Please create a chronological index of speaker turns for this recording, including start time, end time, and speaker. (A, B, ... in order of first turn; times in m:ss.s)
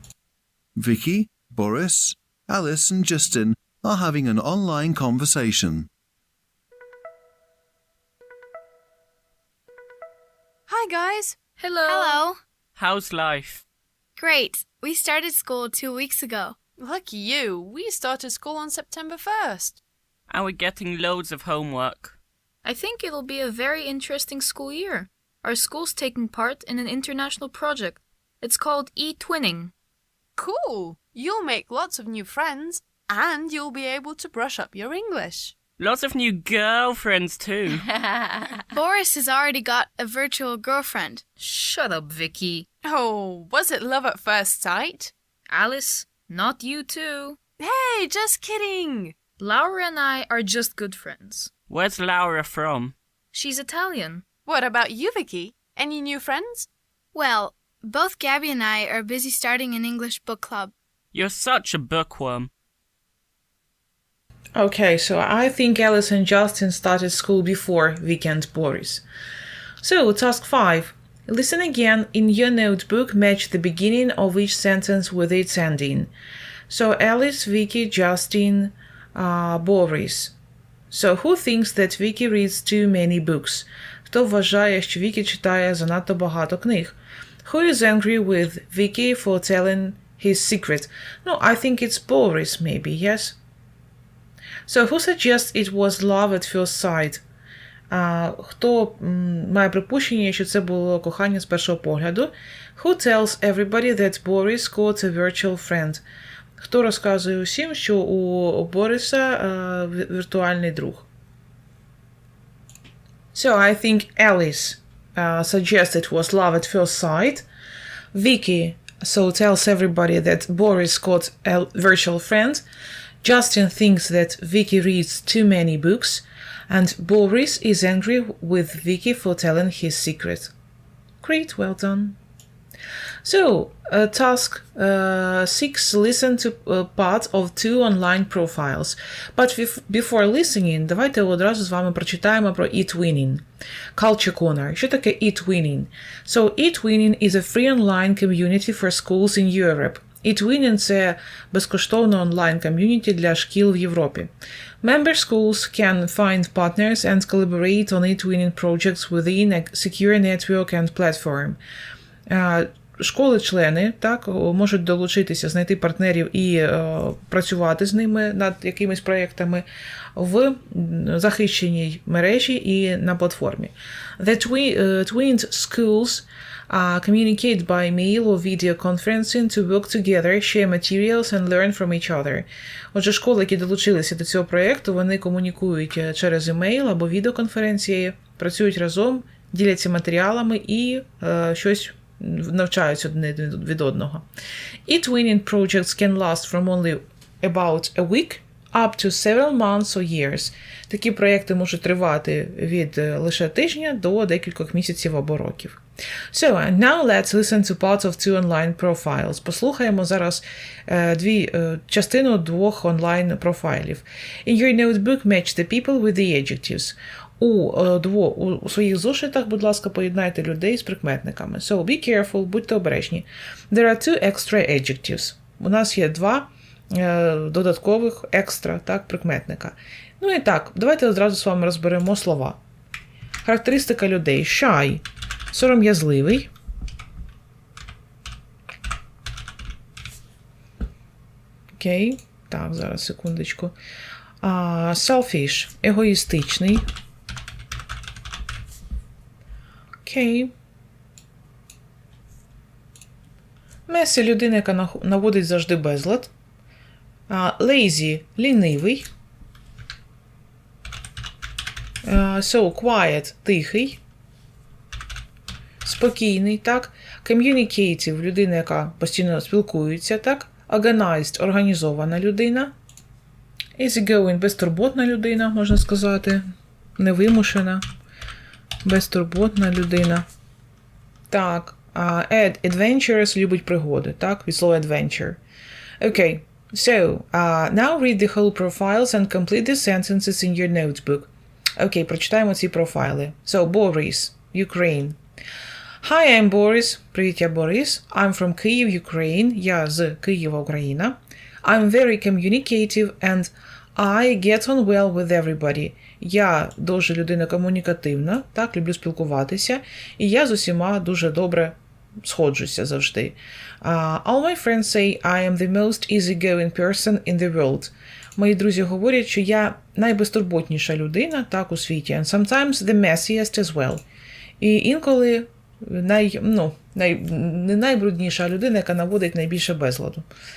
0:00.8-0:05.9 A
0:10.7-0:11.4 B
0:11.6-0:12.2 C
0:11.9-0:12.4 D
0:12.8-0:13.6 E
0:14.2-0:16.6 D
0:16.8-0:19.8 B
0:20.3-0:22.2 E
0:22.6-0:29.7 C
0:30.4-0:35.5 B
0:35.8-0:37.9 E
0:38.7-0:41.2 D
0:41.4-0:42.7 C
0:42.9-0:45.1 B
0:45.5-0:47.4 C
0:47.6-0:49.1 B
0:49.4-0:51.5 C
0:51.7-0:53.0 E
0:53.3-0:54.2 C
0:54.5-0:56.7 B
0:57.1-1:00.7 D
1:01.1-1:02.5 E
1:04.6-1:09.0 F
1:09.8-1:16.1 F
1:16.7-1:20.3 F
1:20.9-1:33.4 F
1:34.7-1:37.2 F
1:37.9-1:46.0 F
1:46.6-1:51.1 F
1:53.3-1:57.5 F
1:58.1-2:02.6 F
2:03.2-2:10.5 F
2:11.2-2:12.2 F
2:13.2-2:23.4 F
2:24.0-2:34.3 F
2:34.8-2:41.6 F
2:42.3-2:49.6 F
2:50.2-3:14.2 F
3:14.9-3:25.8 F
3:26.3-3:52.6 F
3:53.4-3:56.5 F
4:01.8-4:03.7 F
4:04.4-4:06.8 F
4:10.0-4:10.5 F
4:13.9-4:16.3 F
4:17.3-4:19.1 F
4:22.0-4:24.0 F
4:25.8-4:32.7 F
4:33.8-4:36.4 F
4:37.0-4:37.8 F
4:38.8-4:40.3 F
4:41.3-4:45.4 F
4:46.0-4:55.2 F
4:56.0-5:24.0 F
5:24.6-5:30.2 F